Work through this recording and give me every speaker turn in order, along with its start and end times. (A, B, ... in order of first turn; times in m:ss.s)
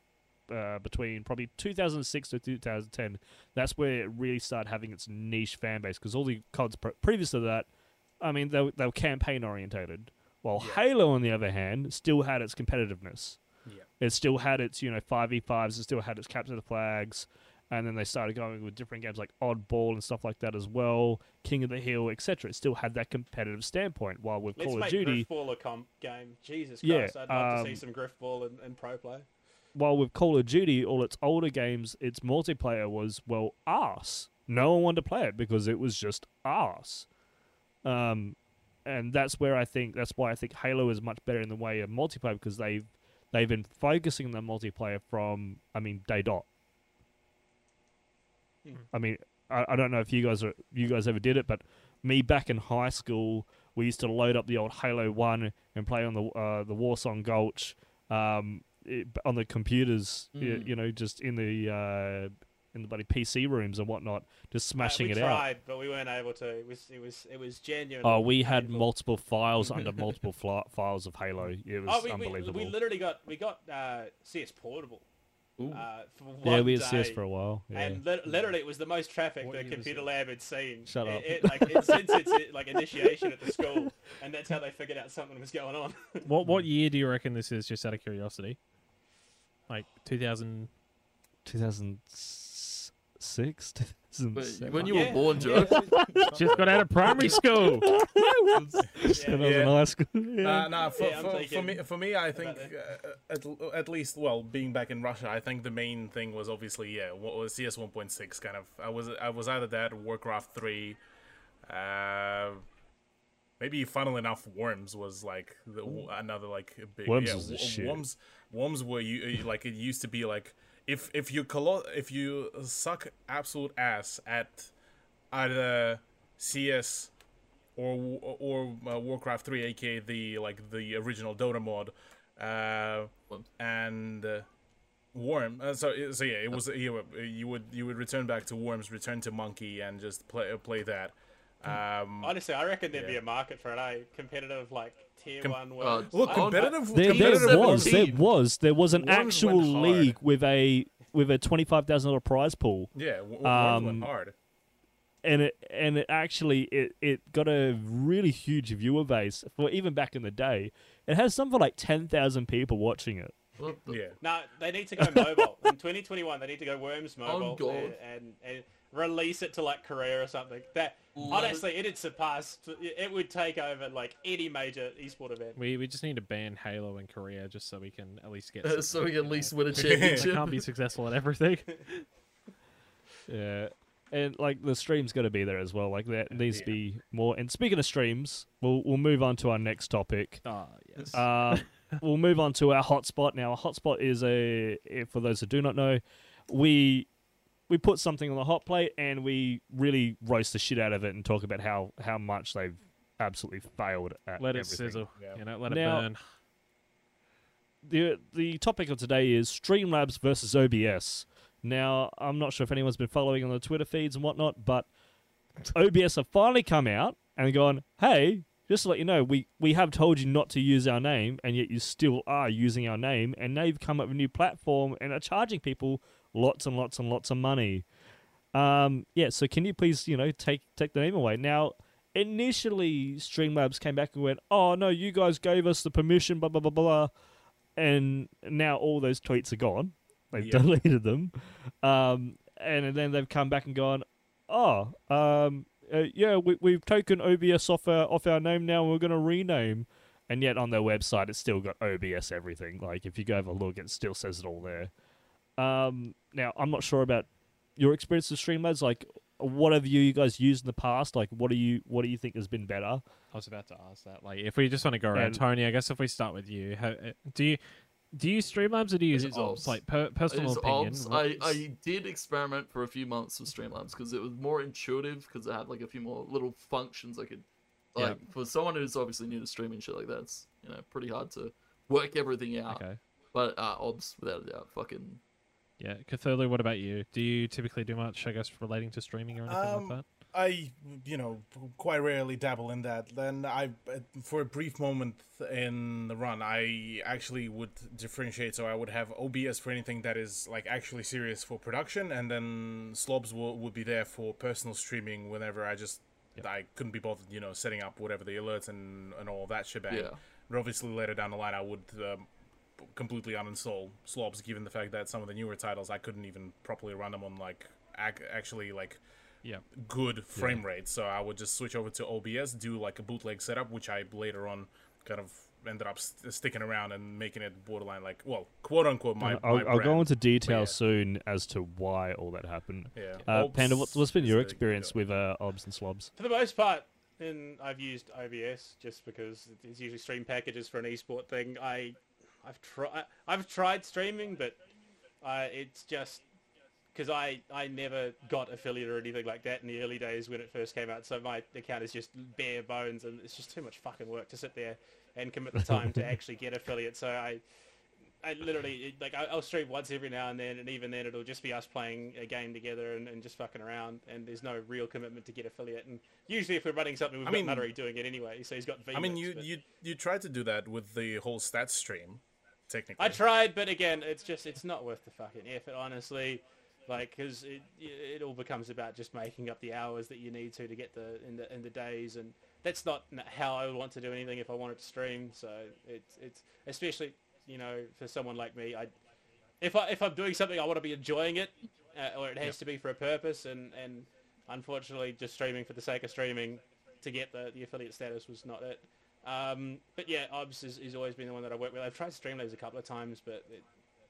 0:00.5-0:07.7 A
0:08.2-0:13.4 A
0:14.0-0:25.3 A
0:24.6-0:29.3 B
0:26.8-0:27.8 A
0:29.8-0:37.1 A
0:37.8-0:46.5 A
0:48.9-1:05.4 A
1:00.4-1:00.7 C
1:04.8-1:08.9 B
1:08.0-1:12.7 A
1:09.7-1:10.1 C
1:11.9-1:15.1 B
1:15.6-1:15.9 C
1:15.7-1:17.2 B
1:16.4-1:18.0 A
1:17.7-1:26.3 B
1:19.4-1:20.1 D
1:20.9-1:22.4 A
1:22.9-1:23.9 A
1:26.2-1:28.6 D
1:29.7-1:30.7 D
1:31.4-1:36.4 A
1:34.4-1:36.2 C
1:34.8-1:36.1 B
1:36.3-1:37.0 E
1:36.3-1:37.9 D
1:37.1-1:40.7 A
1:38.5-1:39.2 C
1:39.1-1:39.7 B
1:39.3-1:39.8 E
1:40.4-1:51.0 E
1:41.0-1:42.7 B
1:51.7-1:52.6 E
1:53.6-2:04.7 E
1:57.1-1:58.0 A
2:05.3-2:07.1 E
2:07.8-2:14.5 E
2:15.1-2:22.4 E
2:22.2-2:26.8 B
2:22.9-2:23.2 E
2:25.4-2:28.1 E
2:25.8-2:28.2 C
2:26.9-2:32.9 A
2:28.9-2:30.2 E
2:33.0-2:34.3 E
2:33.4-2:34.1 A
2:35.2-2:43.4 A
2:43.6-2:44.0 C
2:43.9-2:44.2 E
2:44.2-2:55.6 B
2:45.0-2:45.3 A
2:47.2-2:48.0 C
2:51.2-2:51.6 C
2:55.6-3:02.1 D
2:58.6-3:00.6 C
2:59.8-3:00.3 E
3:03.3-3:10.5 A
3:06.5-3:06.8 E
3:10.4-3:12.0 D
3:11.1-3:17.1 A
3:17.7-3:25.1 A
3:24.4-3:26.2 D
3:25.2-3:25.4 E
3:25.7-3:26.1 A
3:27.8-3:34.9 A
3:35.7-3:47.9 A
3:48.5-3:57.1 A
3:57.8-4:14.9 A
4:00.4-4:00.7 E
4:15.6-4:23.0 A
4:23.3-4:31.6 D
4:25.1-4:25.4 A
4:29.1-4:45.2 C
4:42.7-4:43.0 D
4:45.8-4:50.0 D
4:49.5-5:12.3 E
5:09.9-5:10.2 C
5:12.8-5:19.0 E
5:19.7-5:30.8 E
5:20.4-5:20.6 A
5:29.2-5:36.1 A
5:33.0-5:35.0 E
5:36.2-5:44.6 B
5:45.2-5:46.2 B
5:46.9-5:57.4 B
5:55.6-5:56.2 A
5:58.2-6:09.5 B
6:07.2-6:07.7 E
6:08.9-6:13.2 E
6:13.0-6:28.9 B
6:29.6-6:43.6 B